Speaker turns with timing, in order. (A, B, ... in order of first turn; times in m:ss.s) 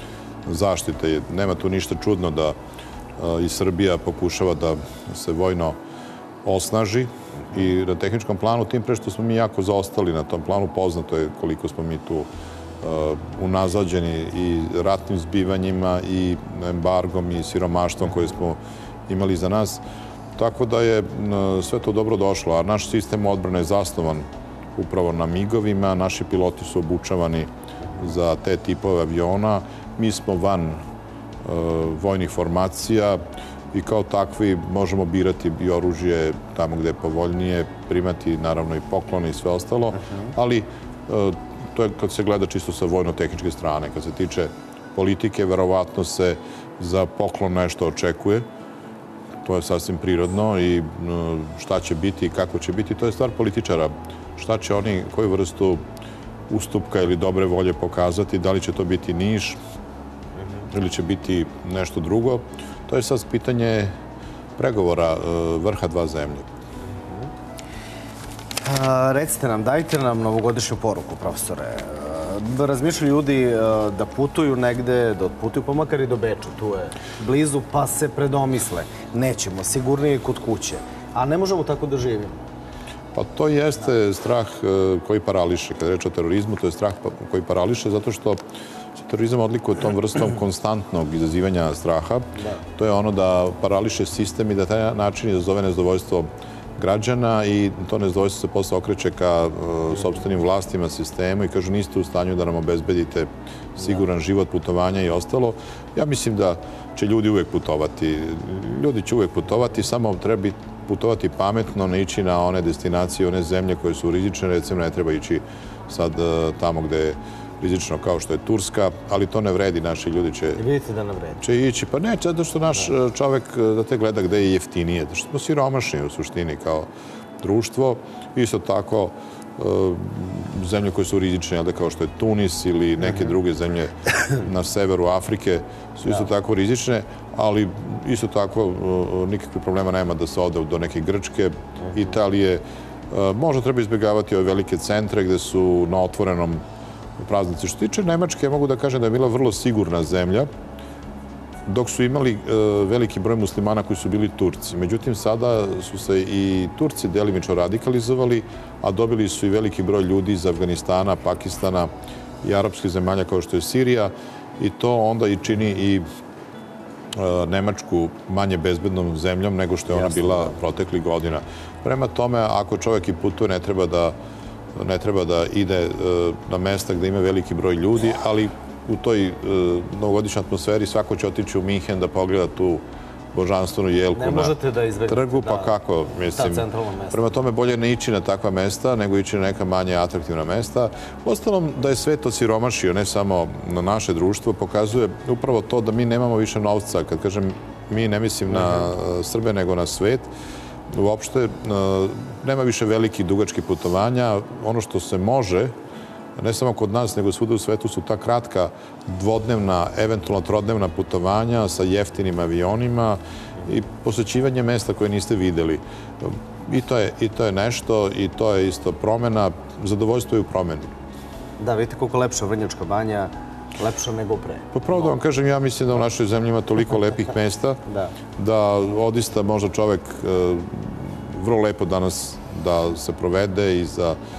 0:00.4-0:02.6 A
0:03.2-0:05.8 A
0:06.4-0:12.3 A
0:12.8-0:19.8 A
0:20.4-0:30.8 A
0:31.4-0:33.2 A
0:33.7-0:48.4 A
0:49.4-0:55.8 A
0:56.5-0:59.6 A
1:00.7-1:03.9 A
1:04.6-1:06.4 A
1:08.6-1:22.4 B
1:23.1-1:28.4 A
1:29.0-2:00.6 A
1:32.4-1:32.6 B
2:00.6-2:01.4 B
2:01.4-2:06.9 A
2:07.4-2:26.6 A
2:27.2-2:30.5 A
2:31.7-2:41.9 A
2:42.4-2:46.0 A
2:47.1-2:54.1 A
2:54.7-3:04.5 A
3:04.1-3:05.7 B
3:05.1-3:20.3 A
3:06.3-3:07.2 B
3:20.9-3:25.7 A
3:26.4-3:40.9 A
3:41.6-3:44.7 B
3:44.7-3:47.8 A
3:48.4-3:54.2 A